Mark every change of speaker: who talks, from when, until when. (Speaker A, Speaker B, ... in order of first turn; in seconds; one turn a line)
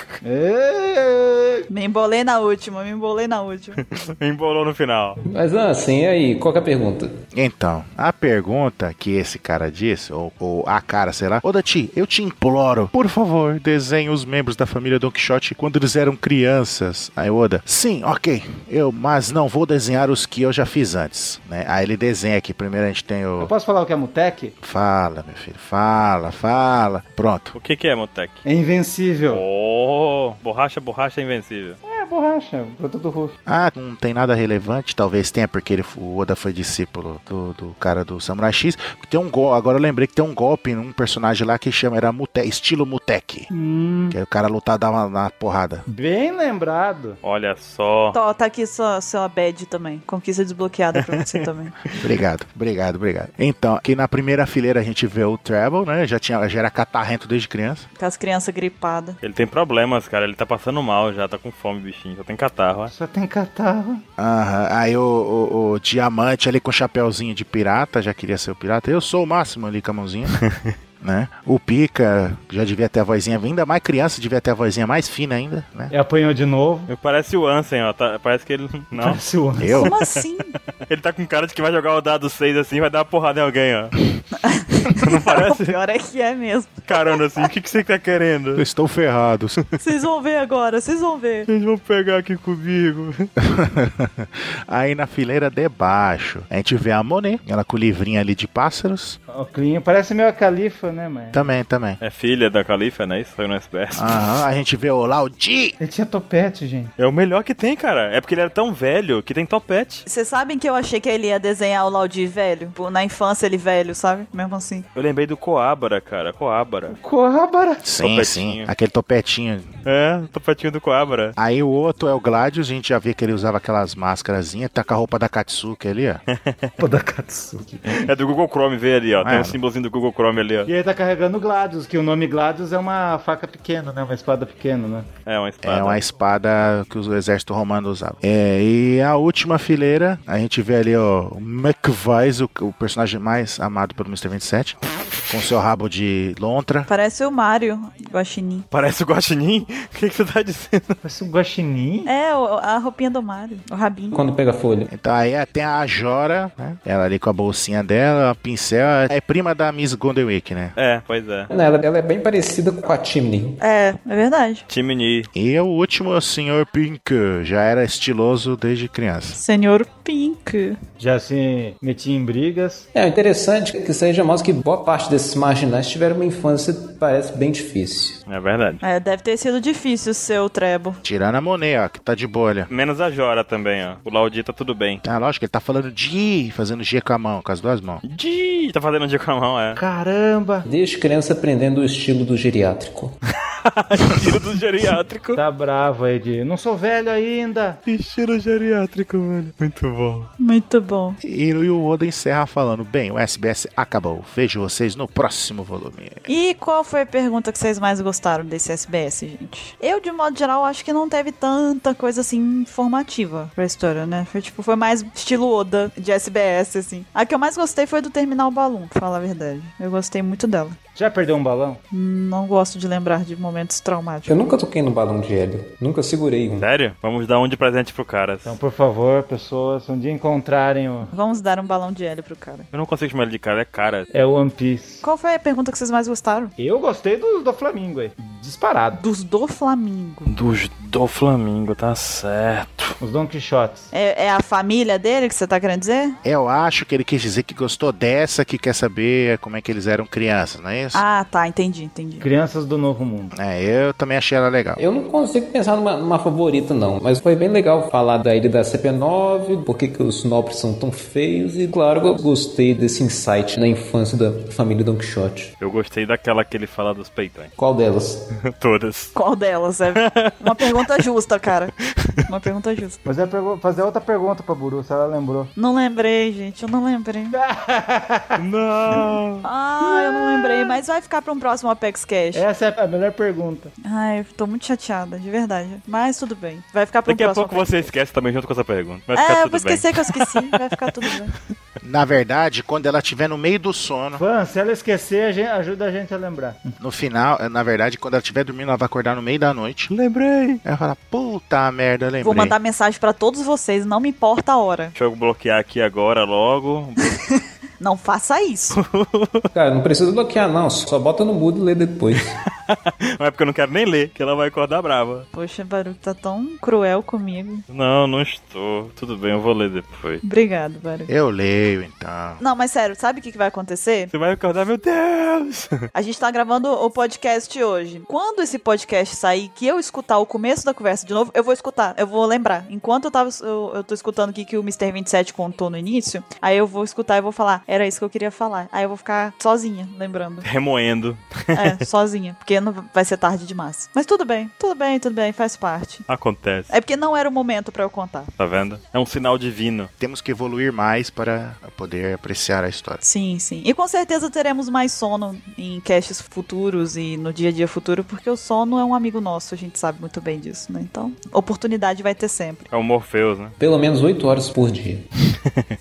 Speaker A: 0.2-1.7
Speaker B: 1.7-3.8
Speaker C: 3.9-5.2
Speaker D: 5.2-7.1
Speaker E: 7.3-23.5
Speaker A: 23.4-24.6
Speaker E: 24.6-27.6
Speaker C: 27.6-28.4
Speaker A: 28.5-29.4
Speaker C: 29.3-31.8
Speaker A: 31.9-33.4
Speaker E: 33.5-43.5
Speaker A: 43.5-44.2
Speaker E: 44.1-45.9
Speaker A: 45.9-47.2
Speaker C: 47.2-48.2
Speaker B: 48.1-51.7
Speaker C: 51.0-52.1
Speaker E: 52.0-57.9
Speaker B: 58.0-59.2
Speaker C: 59.2-62.9
Speaker A: 62.9-64.0
Speaker E: 64.2-70.4
Speaker C: 70.5-70.7
Speaker E: 71.0-75.9
Speaker A: 75.9-76.9
Speaker C: 76.9-79.2
Speaker A: 79.0-79.9
Speaker E: 79.6-80.0
Speaker B: 79.7-80.5
Speaker C: 80.9-84.0
Speaker B: 84.4-87.2
Speaker C: 84.9-85.8
Speaker C: 86.9-88.7
Speaker E: 88.6-89.6
Speaker B: 89.8-91.5
Speaker C: 91.5-93.3
Speaker E: 93.4-99.2
Speaker A: 99.3-101.4
Speaker E: 101.3-102.0
Speaker C: 102.0-104.2
Speaker E: 104.0-105.8
Speaker A: 105.8-106.9
Speaker C: 107.0-110.0
Speaker B: 110.1-114.8
Speaker C: 115.0-117.0
Speaker A: 116.9-117.8
Speaker E: 117.8-119.7
Speaker C: 118.0-118.7
Speaker C: 119.8-121.3
Speaker E: 121.4-126.2
Speaker C: 126.3-126.7
Speaker A: 126.8-128.1
Speaker C: 127.9-130.7
Speaker E: 129.2-129.6
Speaker A: 130.7-135.1
Speaker C: 135.3-136.0
Speaker E: 135.6-144.8
Speaker E: 145.3-146.9
Speaker B: 146.9-148.7
Speaker C: 148.7-151.0
Speaker A: 151.0-152.1
Speaker B: 152.1-154.2
Speaker D: 154.1-154.9
Speaker E: 154.9-160.8
Speaker C: 160.8-161.5
Speaker D: 161.5-163.6
Speaker B: 163.6-164.7
Speaker C: 164.7-165.3
Speaker E: 165.3-169.4
Speaker B: 169.3-170.8
Speaker A: 171.0-172.9
Speaker D: 172.9-178.2
Speaker C: 178.3-178.8
Speaker B: 178.8-181.0
Speaker E: 181.0-182.7
Speaker C: 182.7-185.0
Speaker E: 185.0-188.0
Speaker C: 188.0-189.8
Speaker A: 189.8-190.7
Speaker D: 190.7-193.2
Speaker C: 193.6-195.4
Speaker A: 195.3-197.8
Speaker C: 197.9-200.3
Speaker B: 200.4-201.2
Speaker E: 201.2-206.2
Speaker B: 206.3-220.8
Speaker A: 221.0-221.8
Speaker B: 221.9-224.3
Speaker D: 224.3-226.7
Speaker C: 226.6-228.6
Speaker A: 228.4-231.1
Speaker B: 231.1-232.7
Speaker C: 232.7-234.1
Speaker A: 234.1-235.0
Speaker B: 235.0-236.5
Speaker A: 236.6-239.0
Speaker B: 239.0-240.3
Speaker C: 240.3-243.0
Speaker A: 243.0-243.9
Speaker B: 243.9-246.2
Speaker E: 246.2-251.0
Speaker B: 250.9-252.3
Speaker A: 252.2-253.3
Speaker E: 253.3-254.8
Speaker D: 254.8-265.5
Speaker C: 265.6-267.5
Speaker D: 267.6-268.2
Speaker C: 268.5-269.1
Speaker B: 269.1-271.7
Speaker C: 270.0-270.8
Speaker B: 272.3-273.0
Speaker A: 273.1-275.5
Speaker B: 275.6-277.4
Speaker A: 277.3-279.2
Speaker C: 278.4-279.5
Speaker B: 279.4-282.4
Speaker A: 279.8-280.7
Speaker A: 282.3-283.7
Speaker B: 283.8-287.9
Speaker C: 287.1-290.6
Speaker B: 289.1-291.3
Speaker E: 291.8-294.2
Speaker A: 294.2-296.8
Speaker E: 296.8-299.9
Speaker C: 299.9-300.6
Speaker E: 300.6-302.5
Speaker B: 302.2-304.9
Speaker C: 304.9-307.0
Speaker B: 307.8-308.8
Speaker C: 308.7-309.5
Speaker D: 309.5-312.4
Speaker C: 312.5-315.3
Speaker B: 315.3-317.6
Speaker C: 317.7-320.2
Speaker B: 320.2-321.1
Speaker E: 321.1-322.4
Speaker B: 322.4-324.1
Speaker C: 324.1-325.9
Speaker B: 325.9-340.5
Speaker C: 340.4-341.8
Speaker B: 341.5-346.1
Speaker C: 346.1-346.7
Speaker B: 346.7-348.3
Speaker C: 348.4-349.9
Speaker E: 350.0-353.0
Speaker B: 353.0-362.7
Speaker C: 362.7-363.6
Speaker D: 363.6-365.1